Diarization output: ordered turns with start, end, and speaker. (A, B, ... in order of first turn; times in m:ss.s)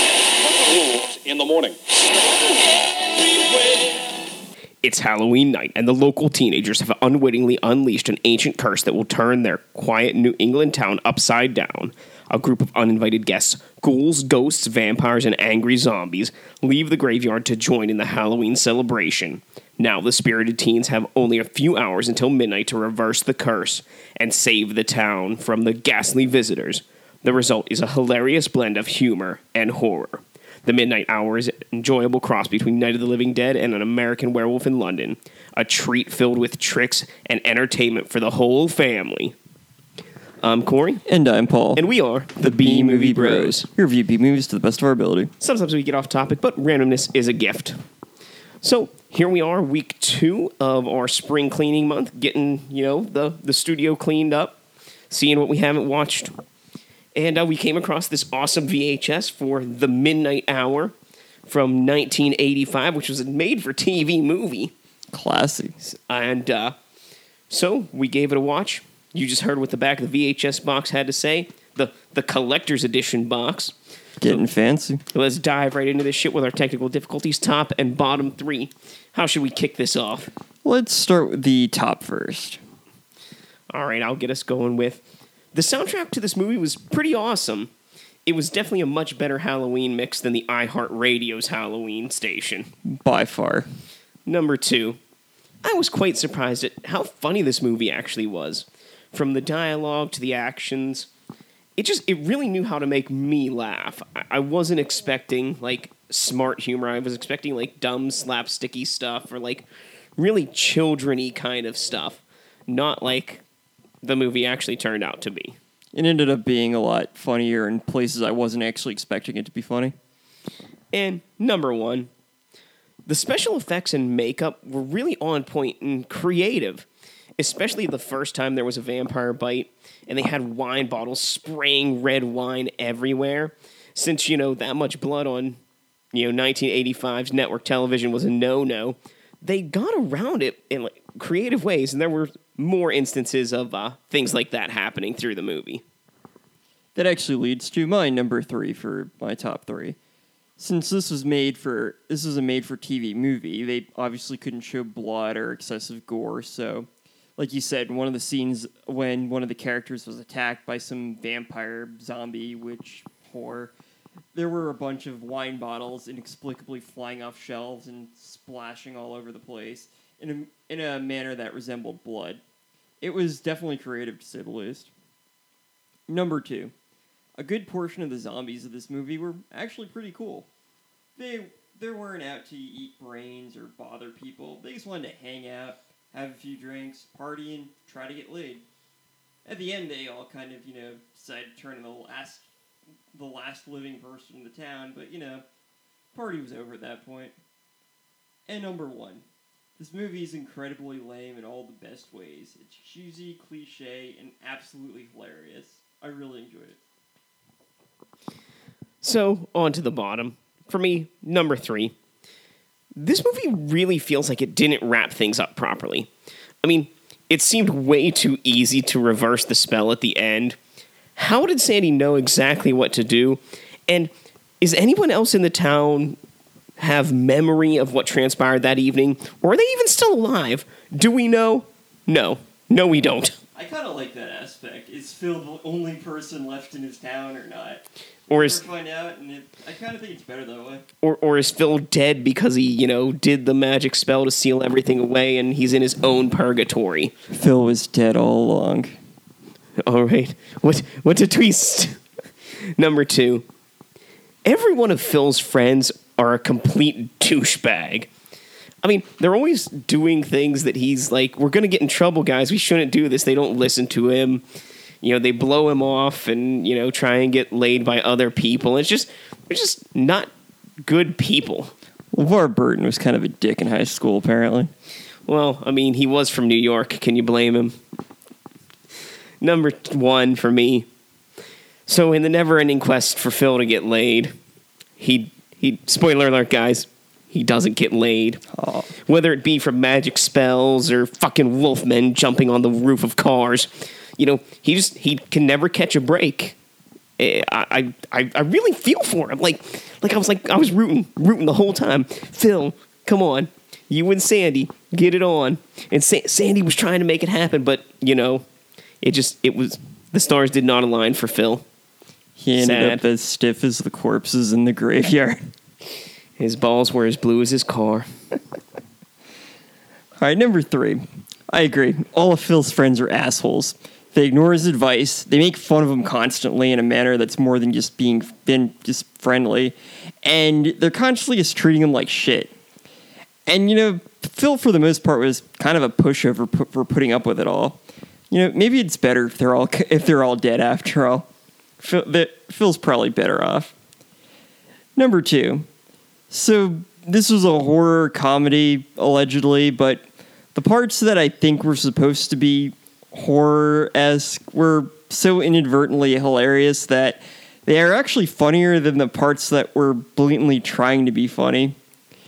0:00.4-0:01.9 A
0:02.5-0:04.0 A
0:04.8-0:39.4 B
0:40.4-0:41.0 B
0:41.1-0:41.8 C
0:41.8-0:43.7 B
0:42.4-0:45.3 C
0:45.4-0:47.8 B
0:48.6-0:54.6 B
0:55.1-0:56.3 B
0:57.2-1:01.0 B
1:01.5-1:04.7 B
1:05.1-1:05.8 C
1:05.8-1:06.8 B
1:07.5-1:13.8 B
1:14.2-1:15.0 C
1:15.1-1:20.3 B
1:20.6-1:22.6 C
1:23.7-1:27.7 B
1:28.3-1:32.7 B
1:32.9-1:33.7 C
1:34.3-1:35.0 B
1:35.6-1:41.1 B
1:41.8-1:53.4 B
1:54.0-1:55.6 B
1:55.9-1:59.9 C
2:00.9-2:02.1 B
2:03.1-2:06.9 B
2:07.4-2:15.6 B
2:16.1-2:25.8 B
2:27.0-2:30.0 C
2:30.6-2:43.7 C
2:44.4-2:52.4 C
2:53.0-2:54.9 C
2:56.1-2:56.7 C
2:57.4-3:00.5 C
3:01.2-3:08.6 C
3:09.5-3:12.5 C
3:13.1-3:15.4 C
3:16.1-3:17.4 C
3:18.5-3:19.2 C
3:19.8-3:26.8 C
3:29.0-3:32.0 B
3:33.0-3:36.1 B
3:36.6-3:40.6 B
3:41.2-3:46.2 B
3:46.8-3:53.4 B
3:53.6-4:00.8 C
3:58.3-3:58.6 B
4:01.0-4:07.1 B
4:07.3-4:09.0 C
4:09.8-4:12.0 B
4:12.6-4:13.4 B
4:14.4-4:18.1 B
4:18.8-4:24.4 B
4:25.0-4:30.3 B
4:30.8-4:31.7 B
4:32.1-4:34.7 C
4:35.3-4:37.8 B
4:39.4-4:40.9 B
4:41.9-4:44.4 B
4:45.0-4:48.5 B
4:48.6-4:48.9 C
4:49.0-4:56.6 B
4:57.2-5:08.4 B
5:09.0-5:11.7 B
5:12.4-5:15.4 C
5:12.6-5:13.0 B
5:16.4-5:18.1 B
5:20.2-5:32.5 C
5:33.5-5:37.8 C
5:38.3-5:41.3 C
5:41.8-5:43.7 C
5:45.0-5:45.7 C
5:46.3-5:50.0 C
5:50.6-6:01.8 C